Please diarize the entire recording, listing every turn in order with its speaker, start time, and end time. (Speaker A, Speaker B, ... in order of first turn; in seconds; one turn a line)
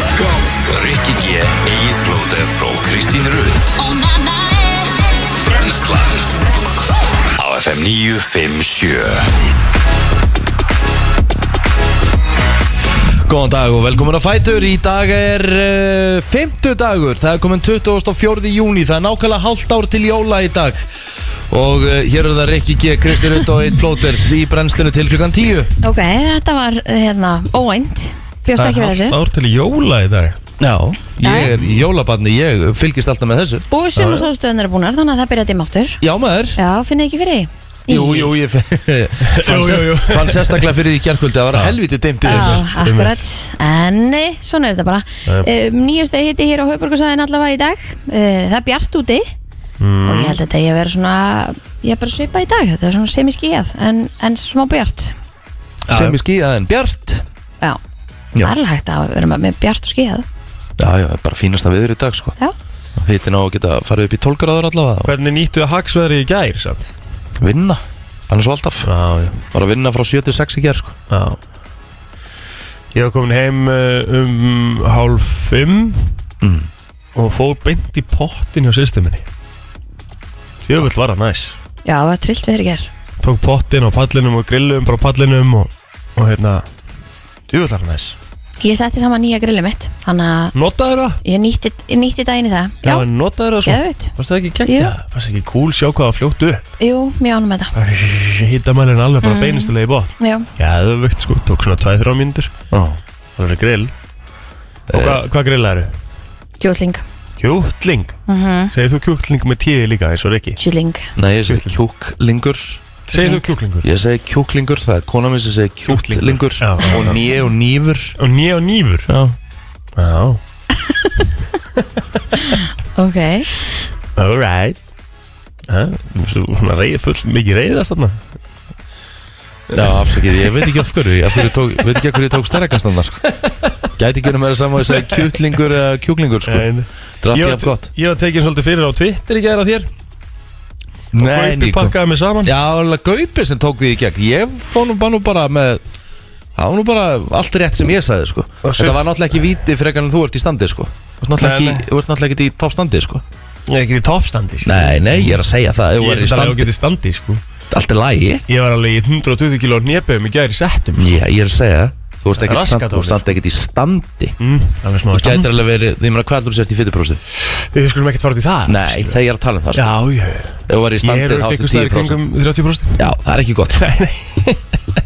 Speaker A: 0.7-3.9
Speaker A: 5.4-6.3
Speaker A: 7.4-9.3
Speaker B: 13.2-25.7
Speaker C: 25.8-29.2
Speaker D: 28.6-30.4
Speaker B: 30.6-33.6
Speaker D: 31.2-31.8
Speaker C: 31.2-31.5
Speaker C: 33.7-36.0
Speaker D: 34.0-34.3
Speaker B: 36.0-36.6
Speaker C: 36.5-38.3
Speaker B: 37.9-42.6
Speaker D: 39.3-40.7
Speaker D: 41.5-43.2
Speaker C: 42.3-49.3
Speaker D: 49.8-50.4
Speaker C: 50.0-55.1
Speaker B: 55.9-57.2
Speaker D: 55.9-56.2
Speaker C: 58.4-60.2
Speaker B: 60.8-62.4
Speaker B: 63.0-65.1
Speaker D: 65.0-66.9
Speaker B: 67.4-68.9
Speaker D: 68.8-69.4
Speaker B: 69.5-71.0
Speaker D: 71.1-71.4
Speaker D: 72.9-76.1
Speaker B: 76.4-76.7
Speaker D: 77.1-79.2
Speaker D: 80.7-81.5
Speaker C: 81.8-82.9
Speaker D: 83.2-86.6
Speaker D: 87.5-88.2
Speaker C: 88.6-90.5
Speaker D: 90.5-91.2
Speaker C: 91.2-93.1
Speaker D: 92.8-96.6
Speaker C: 93.6-94.1
Speaker C: 94.7-94.9
Speaker C: 96.8-97.7
Speaker D: 97.7-102.5
Speaker C: 99.2-100.5
Speaker B: 102.7-103.0
Speaker D: 103.4-103.9
Speaker B: 104.9-105.2
Speaker D: 104.9-105.9
Speaker C: 106.6-107.0
Speaker D: 107.4-108.2
Speaker C: 108.3-108.7
Speaker D: 108.7-110.6
Speaker C: 110.6-111.1
Speaker B: 111.2-112.8
Speaker D: 111.5-111.8
Speaker D: 113.1-113.9
Speaker C: 113.1-113.4
Speaker B: 113.8-118.1
Speaker D: 115.9-117.2
Speaker D: 118.2-119.1
Speaker B: 119.1-119.3
Speaker D: 120.0-120.4
Speaker C: 122.5-123.5
Speaker D: 124.2-124.8
Speaker D: 125.7-128.2
Speaker D: 129.7-130.8
Speaker B: 129.7-133.2
Speaker D: 133.2-133.9
Speaker B: 134.0-136.7
Speaker D: 134.8-135.3
Speaker D: 136.5-139.9
Speaker B: 137.2-137.9
Speaker B: 141.1-145.8
Speaker D: 141.2-142.5
Speaker B: 146.5-153.2
Speaker D: 148.6-149.1
Speaker D: 151.4-151.9
Speaker D: 153.7-155.4
Speaker B: 154.6-156.7
Speaker D: 156.0-157.4
Speaker B: 157.7-158.4
Speaker D: 158.5-161.2
Speaker B: 161.0-164.3
Speaker D: 162.3-163.4
Speaker D: 164.4-165.5
Speaker B: 165.1-167.2
Speaker D: 167.7-169.2
Speaker B: 168.7-169.9
Speaker D: 169.7-173.0
Speaker B: 170.7-172.2
Speaker B: 173.0-173.9
Speaker D: 173.8-174.8